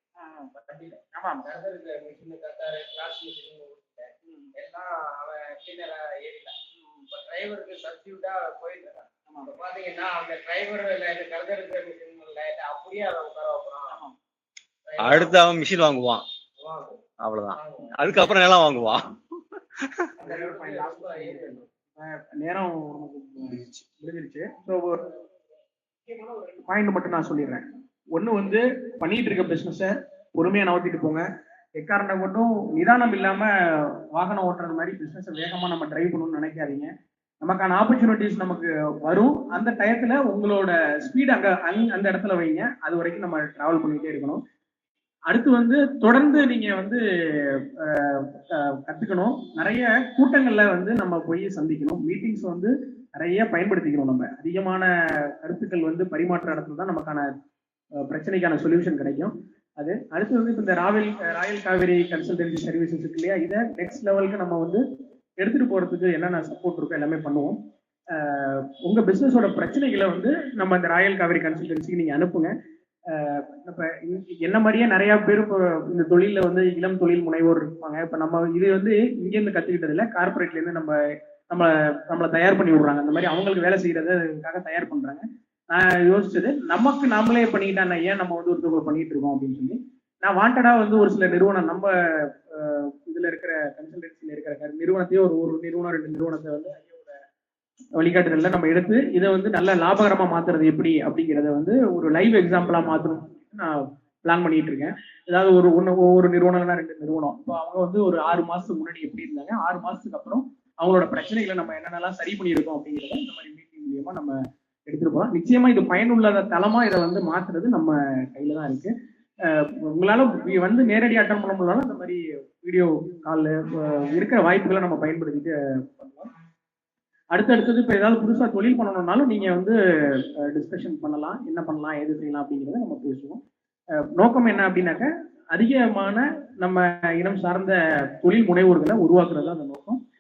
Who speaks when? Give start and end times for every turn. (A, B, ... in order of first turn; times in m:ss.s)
0:00.2-0:00.5 A
0:00.5-0:14.0 B
0:01.1-0:01.5 A
0:04.3-0:04.5 A
0:06.8-0:07.0 A
0:14.8-0:15.4 B
0:15.0-0:16.2 C
0:16.6-0:17.0 B
0:17.2-0:19.2 C
0:17.5-0:18.1 B
0:20.2-0:21.6 B
0:20.2-0:25.1 A
0:26.1-0:31.3 A
0:31.8-0:44.4 A
0:45.3-0:57.3 A
0:58.0-1:04.8 A
1:05.4-1:07.6 A
1:08.1-1:12.5 A
1:13.1-1:21.0 A
1:21.5-1:37.2 A
1:38.0-2:06.3 A
2:07.3-2:13.4 A
2:14.2-2:20.0 A